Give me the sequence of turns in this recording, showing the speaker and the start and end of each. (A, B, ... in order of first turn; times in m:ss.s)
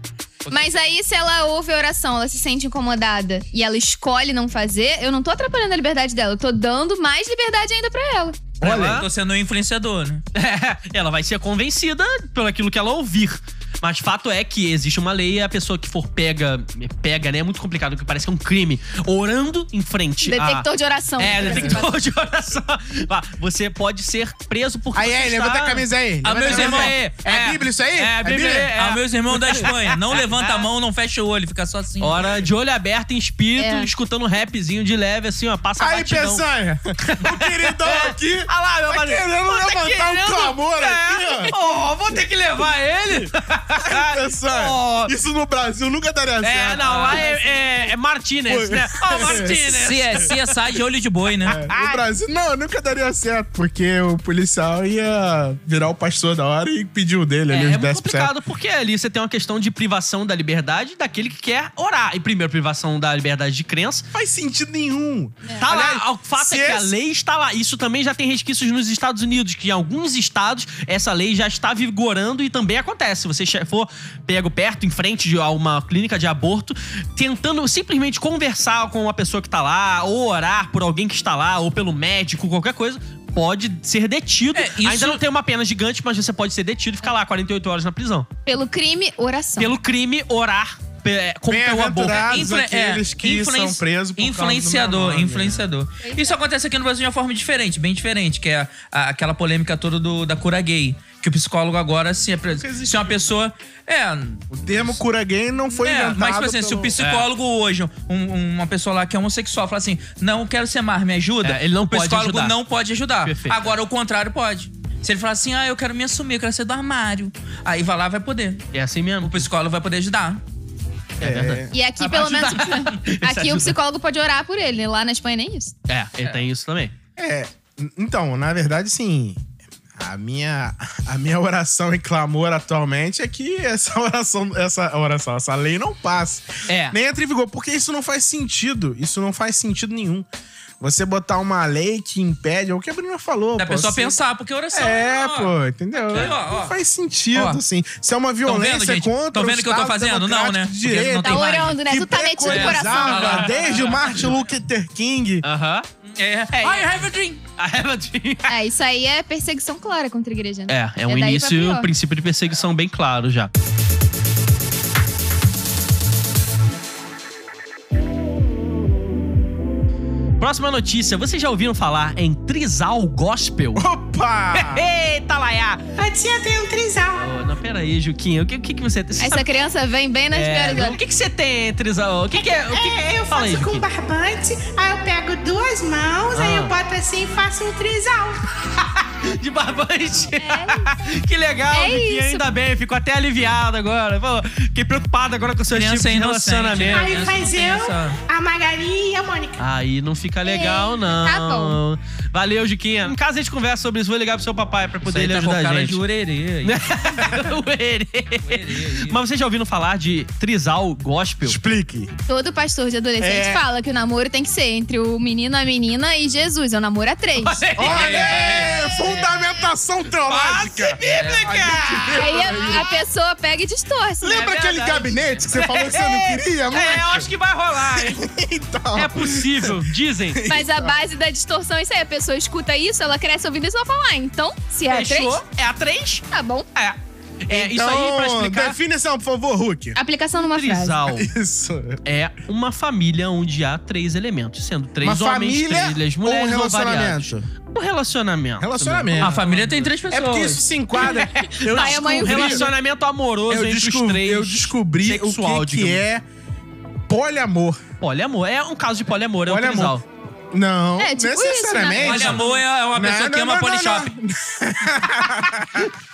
0:00.4-0:00.7 A
0:00.5-0:08.4 B
0:08.6-0:09.1 A
0:08.6-0:10.2 C
0:10.3-0:25.8 A
0:20.2-0:22.0 B
0:21.5-0:21.8 D
0:24.9-0:28.8 D
0:26.2-0:27.6 C
0:26.4-0:27.0 A
0:28.0-0:30.7 A
0:28.4-0:32.4 C
0:32.0-0:36.4 A
0:33.6-0:33.9 B
0:35.8-0:41.5 D
0:37.0-0:45.1 A
0:43.8-0:47.3 D
0:46.4-0:50.6 A
0:46.8-0:47.3 C
0:47.3-0:47.6 B
0:48.5-0:49.9 D
0:49.2-0:51.6 C
0:51.4-0:58.3 D
0:51.4-0:52.0 A
0:57.5-1:04.1 A
1:04.1-1:06.9 D
1:05.6-1:28.3 A
1:24.5-1:25.2 C
1:28.4-1:29.7 B
1:29.6-1:32.3 A
1:31.5-1:35.6 D
1:32.1-1:44.5 C
1:36.0-1:36.4 B
1:42.6-1:43.2 D
1:44.5-1:47.0 D
1:45.8-1:58.6 C
1:47.0-1:47.2 A
1:51.4-1:52.6 A
1:53.2-1:53.6 A
1:58.7-1:59.5 A
1:59.2-2:00.4 C
2:01.2-2:03.7 A
2:01.2-2:01.7 D
2:01.7-2:05.7 B
2:05.9-2:06.9 A
2:07.2-2:09.4 D
2:10.0-2:20.3 D
2:16.7-2:17.0 A
2:20.8-2:24.2 D
2:23.6-2:26.7 C
2:24.7-2:35.4 D
2:27.3-2:27.6 C
2:28.4-2:31.8 C
2:31.2-2:33.5 B
2:32.4-2:34.1 C
2:35.4-2:35.9 A
2:36.0-2:37.4 C
2:36.5-2:36.9 A
2:37.6-2:38.5 A
2:38.5-2:41.9 B
2:40.7-2:43.5 A
2:50.4-2:53.8 A
2:53.7-2:54.8 D
2:54.5-2:56.0 A
2:56.0-2:57.3 E
2:57.2-2:59.5 A
2:59.2-3:01.0 B
3:00.3-3:03.9 A
3:02.3-3:08.4 E
3:06.3-3:06.7 A
3:09.2-3:17.3 A
3:10.4-3:10.9 B
3:11.7-3:12.5 B
3:15.7-3:18.2 C
3:16.8-3:19.6 E
3:19.6-3:26.0 A
3:20.4-3:21.8 B
3:25.0-3:27.4 C
3:26.6-3:31.6 A
3:28.4-3:29.2 C
3:31.4-3:32.1 D
3:32.3-3:37.6 B
3:33.2-3:33.6 D
3:37.4-3:39.2 A
3:37.8-3:42.9 D
3:37.8-3:39.2 C
3:40.3-3:42.9 A
3:40.4-3:41.6 C
3:42.1-3:44.5 B
3:44.2-3:48.2 A
3:44.2-3:51.0 D
3:48.9-3:50.4 A
3:50.4-3:55.4 B
3:54.9-3:58.8 A
3:56.3-3:56.7 B
3:57.5-4:00.0 D
4:00.0-4:01.0 B
4:00.4-4:01.3 A
4:01.1-4:02.0 D
4:02.0-4:09.9 A
4:05.0-4:07.5 D
4:08.6-4:09.4 D
4:09.2-4:10.6 C
4:10.1-4:12.7 D
4:11.0-4:16.0 A
4:11.7-4:12.7 B
4:13.5-4:16.2 D
4:17.1-4:17.8 D
4:18.0-4:20.0 A
4:19.5-4:19.9 D
4:20.5-4:25.9 D
4:21.0-4:22.6 B
4:22.0-4:24.1 C